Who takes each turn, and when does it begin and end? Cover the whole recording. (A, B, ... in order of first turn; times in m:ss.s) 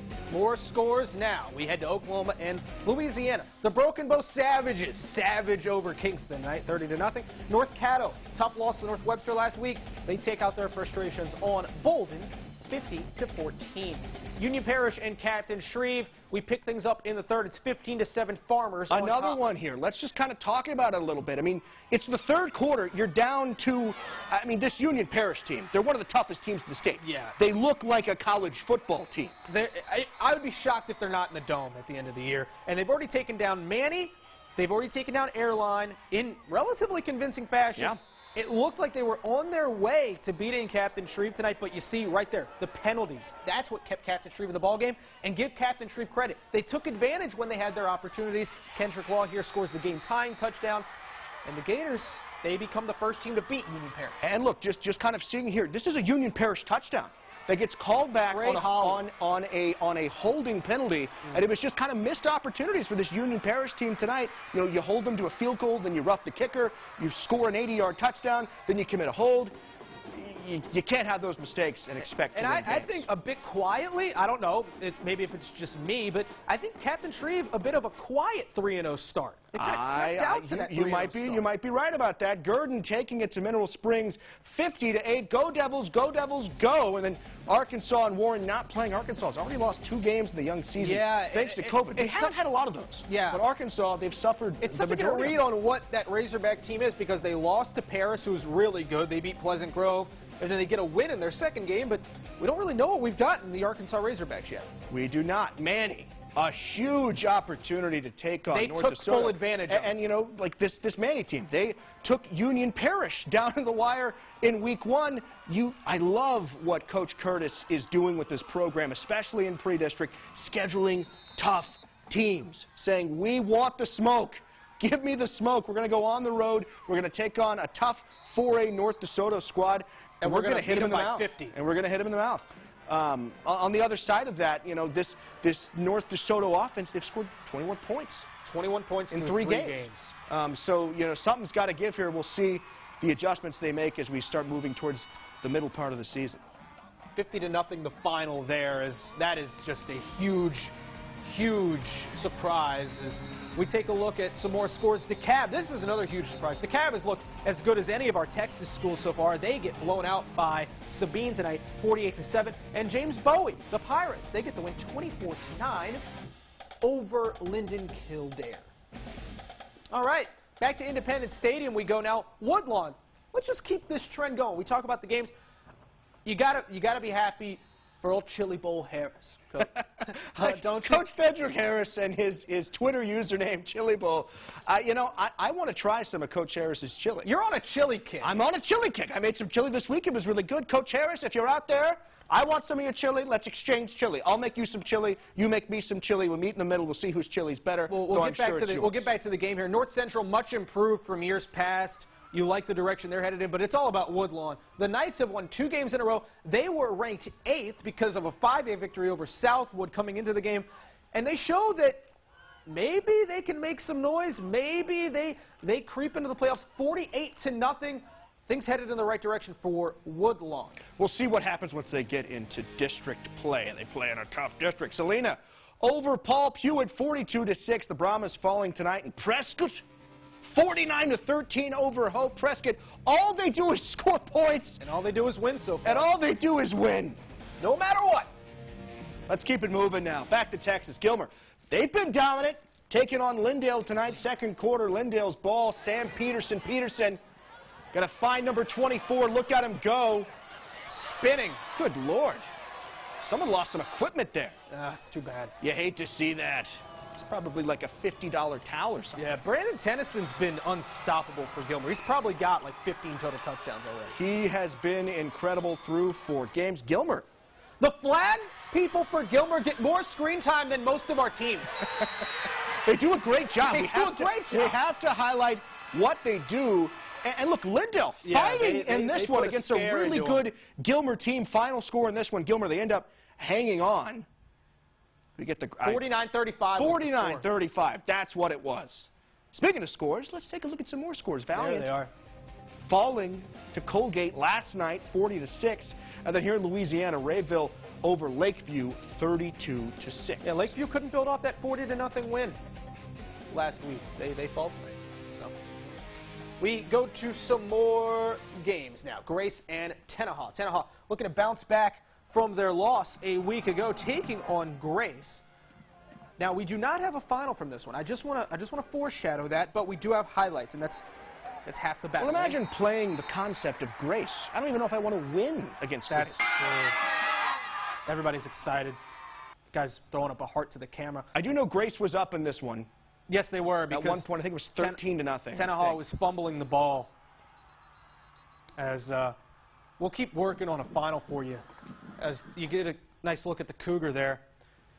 0:00.3-0:19.4 A
0:18.9-0:29.4 B
0:27.0-0:27.4 A
0:29.4-0:50.9 A
0:51.4-0:54.2 A
0:54.2-1:09.5 B
0:58.2-0:59.0 A
1:10.1-1:13.1 B
1:12.1-1:21.4 A
1:19.6-1:35.4 B
1:30.8-1:32.4 A
1:33.1-1:33.4 A
1:34.6-1:44.7 A
1:44.9-2:18.3 B
1:48.5-1:49.9 A
2:10.2-2:11.6 A
2:18.4-2:20.1 A
2:19.1-2:26.4 B
2:27.1-2:46.0 A
2:46.8-2:48.7 A
2:49.9-2:55.3 A
2:56.2-3:01.0 A
3:00.4-3:07.3 B
3:07.2-3:08.3 A
3:08.2-3:19.1 B
3:17.9-3:32.1 A
3:32.7-3:40.8 A
3:41.0-3:49.8 B
3:50.4-3:54.8 B
3:54.8-3:56.1 A
3:55.8-3:57.2 B
3:57.6-3:58.3 A
3:59.3-4:07.2 B
4:07.9-4:10.3 B
4:10.9-4:11.6 A
4:11.7-4:12.5 B
4:13.2-4:14.6 B
4:14.7-4:15.5 A
4:15.6-4:19.3 B
4:19.2-4:24.2 A
4:24.1-4:27.2 B
4:27.8-4:31.8 A
4:32.8-4:44.2 B
4:33.6-4:34.8 A
4:38.2-4:40.4 A
4:45.4-4:46.1 B
4:45.8-4:47.4 A
4:46.7-4:51.9 B
4:51.5-4:52.1 A
4:52.8-5:00.7 B
5:00.4-5:02.6 A
5:03.5-5:05.5 A
5:06.6-5:15.4 A
5:16.4-5:21.0 A
5:21.6-5:22.6 A
5:22.2-5:26.4 B
5:26.1-5:27.0 A
5:28.1-5:29.0 A
5:29.7-5:31.3 A
5:31.3-5:32.9 B
5:33.3-5:37.1 A
5:33.9-5:36.0 B
5:38.8-5:39.4 A
5:40.0-5:41.6 A
5:42.2-5:44.4 A